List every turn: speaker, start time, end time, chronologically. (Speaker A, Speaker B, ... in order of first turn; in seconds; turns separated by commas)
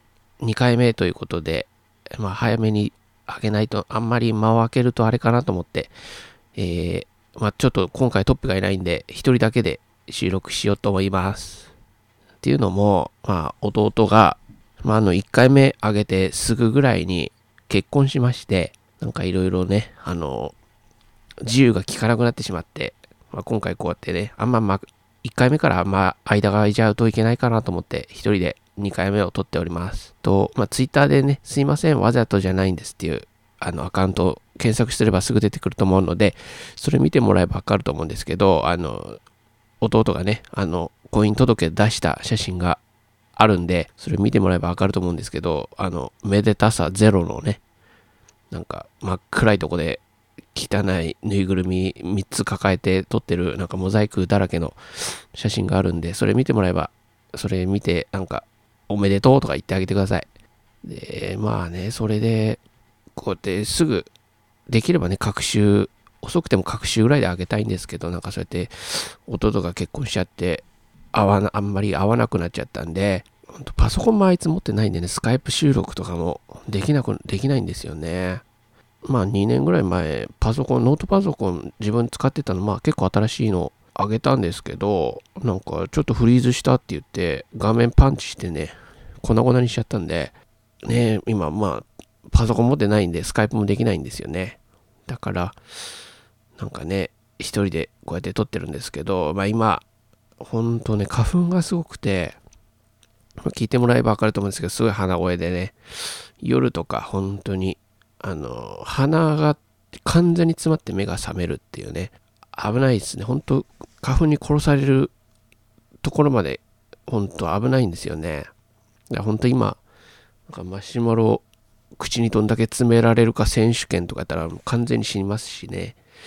Speaker A: 0.4-5.9, Speaker A: 6.5-11.7, Speaker A: 12.4-20.5, Speaker A: 21.4-39.2, Speaker A: 39.8-42.8, Speaker A: 43.4-47.6, Speaker A: 48.5-50.0, Speaker A: 50.5-60.3, Speaker A: 60.8-62.6, Speaker A: 63.1-64.1, Speaker A: 64.7-78.4, Speaker A: 79.0-90.3, Speaker A: 90.8-95.6, Speaker A: 96.6-99.8, Speaker A: 100.4-102.4, Speaker A: 103.4-115.1, Speaker A: 116.0-118.5, Speaker A: 119.1-119.8, Speaker A: 120.5-121.4, Speaker A: 122.0-126.0